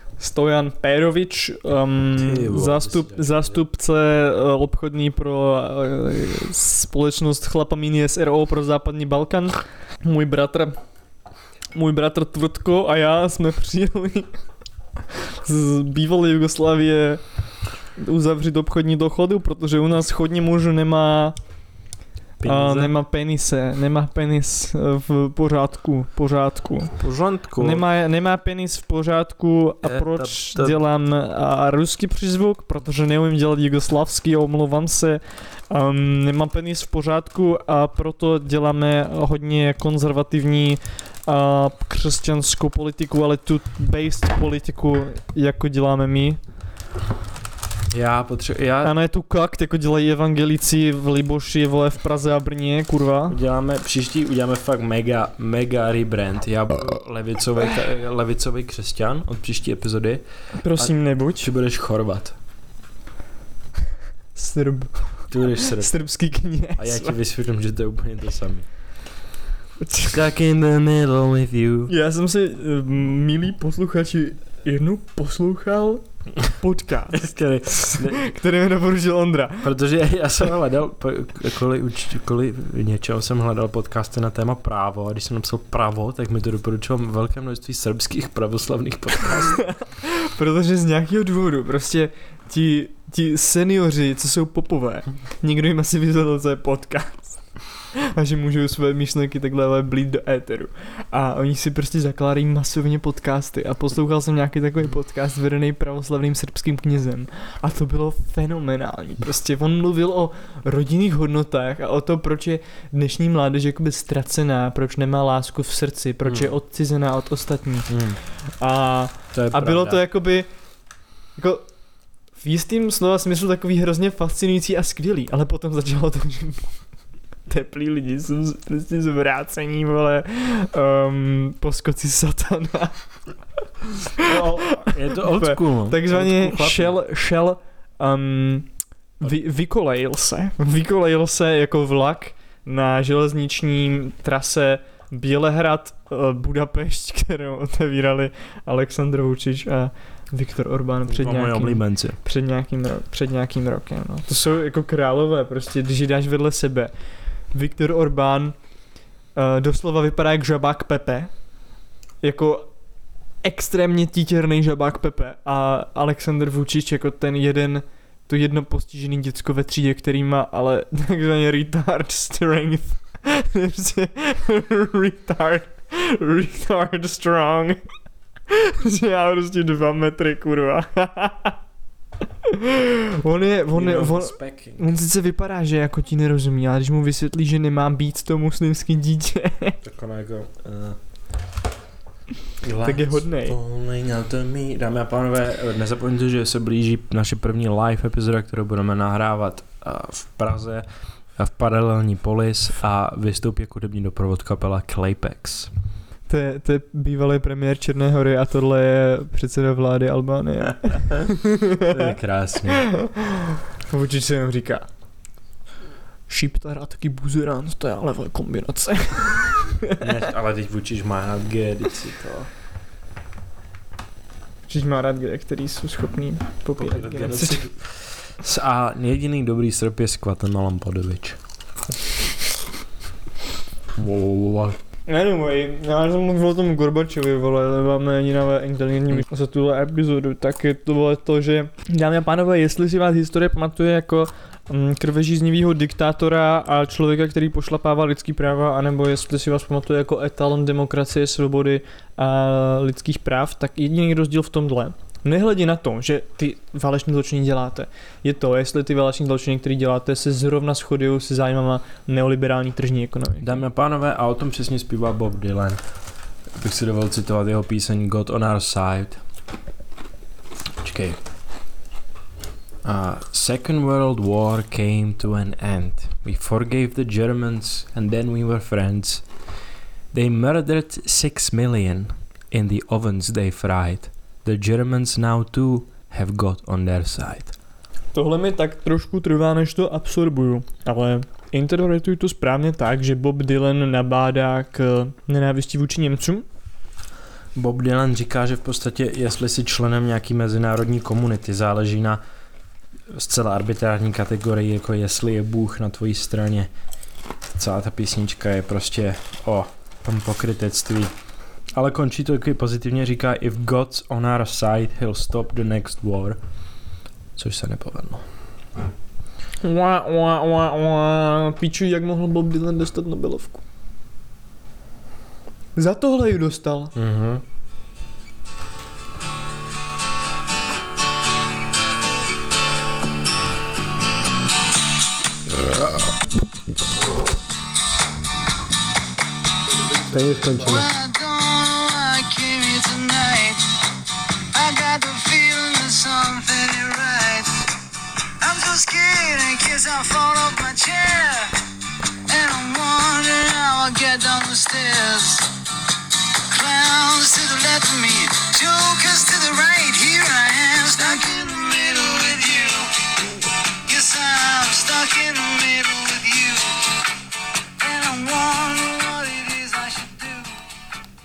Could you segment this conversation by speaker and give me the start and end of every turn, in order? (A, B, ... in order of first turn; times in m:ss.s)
0:00.2-0:10.8 A
0:02.2-0:03.6 B
0:11.7-0:14.3 A
0:15.4-0:17.2 A
0:18.0-0:21.4 A
0:22.4-0:22.9 B
0:22.4-0:27.0 A
0:27.0-0:27.8 B
0:27.6-0:46.4 A
0:29.8-0:30.8 B
0:47.9-0:48.9 B
0:48.8-0:53.4 A
0:53.3-1:00.2 B
1:00.6-1:01.5 A
1:00.7-1:02.3 B
1:04.3-1:07.2 A
1:05.3-1:05.9 B
1:06.8-1:08.6 B
1:09.8-1:10.2 A
1:10.1-1:11.9 B
1:11.9-1:19.7 A
1:17.1-1:18.3 B
1:19.6-1:29.7 B
1:29.7-2:00.5 A
1:57.9-1:58.2 B
1:59.3-2:00.0 B
2:01.4-2:01.7 A
2:02.3-2:06.8 A
2:07.5-2:13.0 A
2:14.2-2:36.9 A
2:14.2-2:16.9 B
2:31.1-2:32.2 B
2:37.5-2:38.5 A
2:39.3-2:41.3 A
2:42.2-2:42.7 A
2:43.4-2:57.8 A
2:58.5-3:01.5 A
3:02.4-3:09.8 A
3:03.7-3:04.9 B
3:09.8-3:11.0 B
3:12.6-3:25.7 B
3:12.8-3:13.6 A
3:26.3-3:32.1 A
3:31.9-3:32.9 B
3:33.8-3:34.9 A
3:36.3-3:40.0 A
3:40.0-3:42.5 B
3:44.7-3:47.6 A
3:46.8-3:51.4 B
3:54.0-3:54.8 B
3:55.1-4:23.6 A
4:23.4-4:25.8 B
4:26.6-4:29.2 B
4:30.8-4:31.2 B
4:32.8-4:39.2 B
4:40.1-4:47.5 B
4:48.1-4:56.4 A
4:57.5-5:02.2 B
5:03.1-5:06.7 B
5:07.5-5:11.1 B
5:11.7-5:16.4 B
5:17.4-5:18.3 B
5:19.6-5:23.6 A
5:25.8-5:26.9 A
5:26.9-5:27.4 B
5:40.1-5:40.9 B
5:40.6-5:43.6 C
5:44.5-5:47.7 C
5:48.4-5:51.6 C
5:52.3-5:55.5 C
5:56.5-6:03.3 C
6:03.8-6:06.9 C
6:07.8-6:10.6 C